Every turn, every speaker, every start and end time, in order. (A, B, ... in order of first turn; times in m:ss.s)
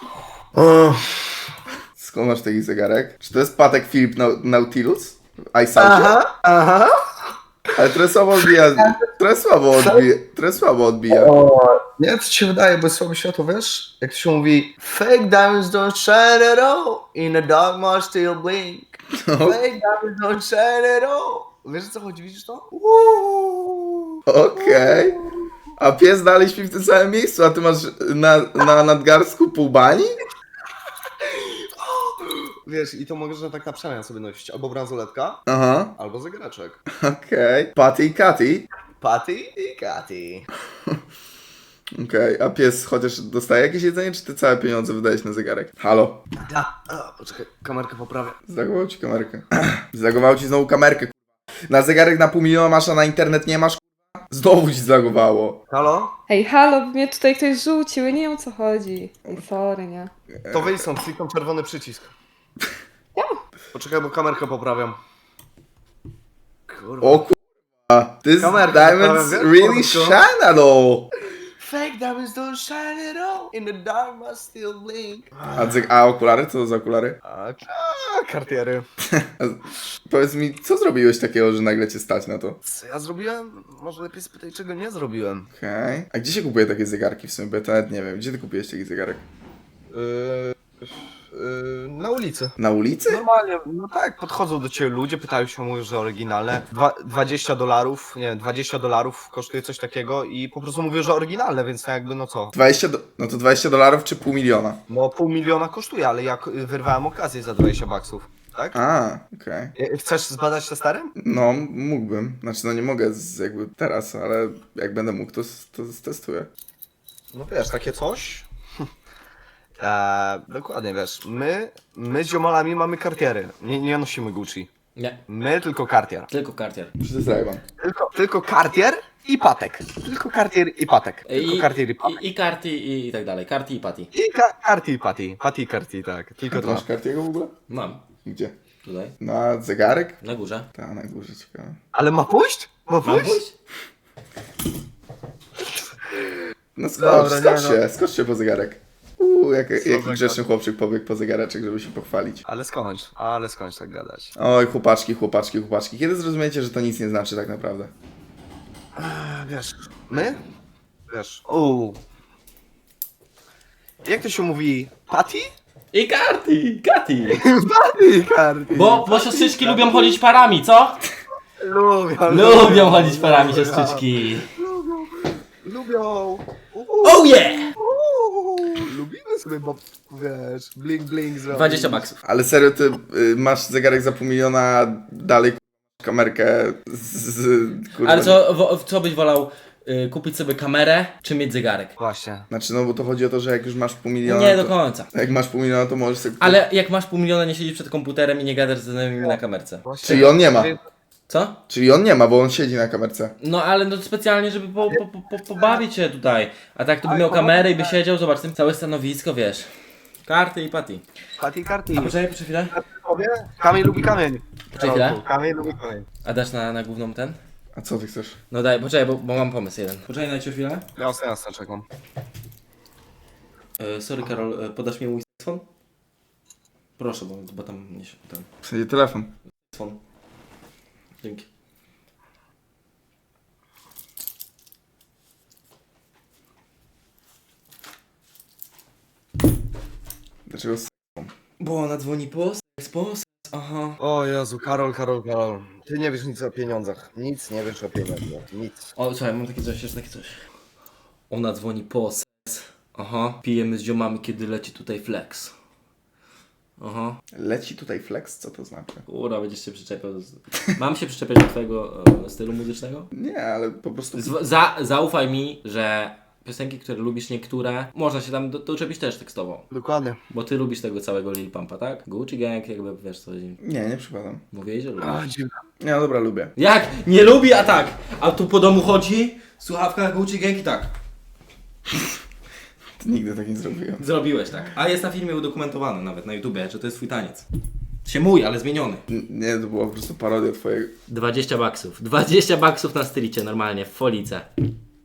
0:00.5-0:01.4 A
0:02.0-0:06.2 B
0:05.8-0:06.9 A
0:07.8-0:11.3 B
0:08.4-0:09.0 A
0:09.7-0:10.1 A
0:11.1-0:25.4 A
0:19.2-0:19.6 B
0:24.2-0:25.2 B
0:25.8-0:30.2 B
0:31.2-0:35.4 A
0:35.5-0:35.9 B
0:36.0-0:36.8 A
0:37.0-0:38.7 B
0:39.0-0:40.5 A
0:41.9-0:46.2 B
0:46.4-0:48.4 A
0:48.5-0:51.1 B
0:51.7-0:55.6 B
0:55.7-0:56.1 A
0:56.3-1:00.1 C
1:00.4-1:00.8 B
1:00.5-1:02.1 A
1:03.7-1:05.0 A
1:06.7-1:07.2 A
1:07.0-1:07.4 B
1:07.9-1:11.1 B
1:08.4-1:10.2 A
1:11.6-1:15.8 A
1:15.5-1:17.2 B
1:17.2-1:18.8 A
1:19.2-1:22.6 B
1:22.6-1:25.5 A
1:25.5-1:29.2 B
1:29.9-1:42.5 A
1:32.6-1:33.2 B
1:42.5-1:44.8 B
1:44.9-1:48.8 A
1:48.7-1:49.7 B
1:49.8-1:51.1 A
1:51.2-1:56.5 B
1:57.3-1:58.4 A
1:59.8-2:04.7 A
2:05.0-2:05.2 D
2:05.3-2:06.3 A
2:06.3-2:06.9 D
2:07.0-2:07.6 B
2:07.8-2:12.2 A
2:11.2-2:14.1 D
2:14.1-2:16.8 A
2:16.5-2:17.5 B
2:17.7-2:18.0 D
2:18.2-2:18.5 B
2:18.8-2:19.1 D
2:19.2-2:20.2 B
2:20.2-2:20.7 D
2:20.7-2:21.8 B
2:21.9-2:23.4 A
2:23.0-2:23.5 D
2:26.8-2:32.4 B
2:27.0-2:27.8 A
2:29.7-2:30.4 A
2:32.4-2:34.3 A
2:34.4-2:37.9 B
2:39.0-2:40.4 A
2:41.1-2:42.0 A
2:44.0-2:45.5 A
2:45.9-2:47.4 D
2:47.3-2:50.2 A
2:48.7-2:51.0 D
2:51.6-3:02.0 A
2:52.3-2:54.5 D
2:57.0-2:57.7 D
3:01.5-3:02.2 D
3:02.2-3:08.4 B
3:08.0-3:11.9 D
3:12.0-3:12.5 A
3:12.5-3:16.6 B
3:14.2-3:15.1 D
3:16.4-3:20.3 D
3:19.2-3:20.8 A
3:20.0-3:20.7 B
3:21.3-3:21.6 D
3:21.7-3:23.3 B
3:23.4-3:29.7 D
3:27.0-3:28.0 A
3:30.2-3:31.0 D
3:31.4-3:32.1 A
3:31.9-3:32.7 D
3:32.7-3:36.1 A
3:34.7-3:35.2 D
3:36.2-3:37.4 D
3:37.8-3:38.4 B
3:38.5-3:40.8 D
3:41.0-3:41.8 A
3:43.8-3:45.6 D
3:47.0-3:48.5 D
3:48.6-3:49.3 B
3:49.7-3:50.0 D
4:00.5-4:01.3 B
4:01.6-4:04.0 D
4:04.0-4:08.9 A
4:09.0-4:10.4 D
4:11.3-4:15.5 D
4:16.8-4:17.2 D
4:17.3-4:19.0 B
4:19.0-4:23.1 D
4:23.1-4:24.4 B
4:24.1-4:29.6 D
4:29.7-4:30.2 A
4:30.3-4:33.6 D
4:33.6-4:34.4 B
4:34.5-4:35.2 D
4:35.0-4:35.6 A
4:35.8-4:36.5 B
4:36.6-4:40.9 D
4:43.0-4:44.0 B
4:44.0-4:47.4 D
4:48.0-4:49.0 D
4:49.1-4:50.9 B
4:51.1-4:54.5 D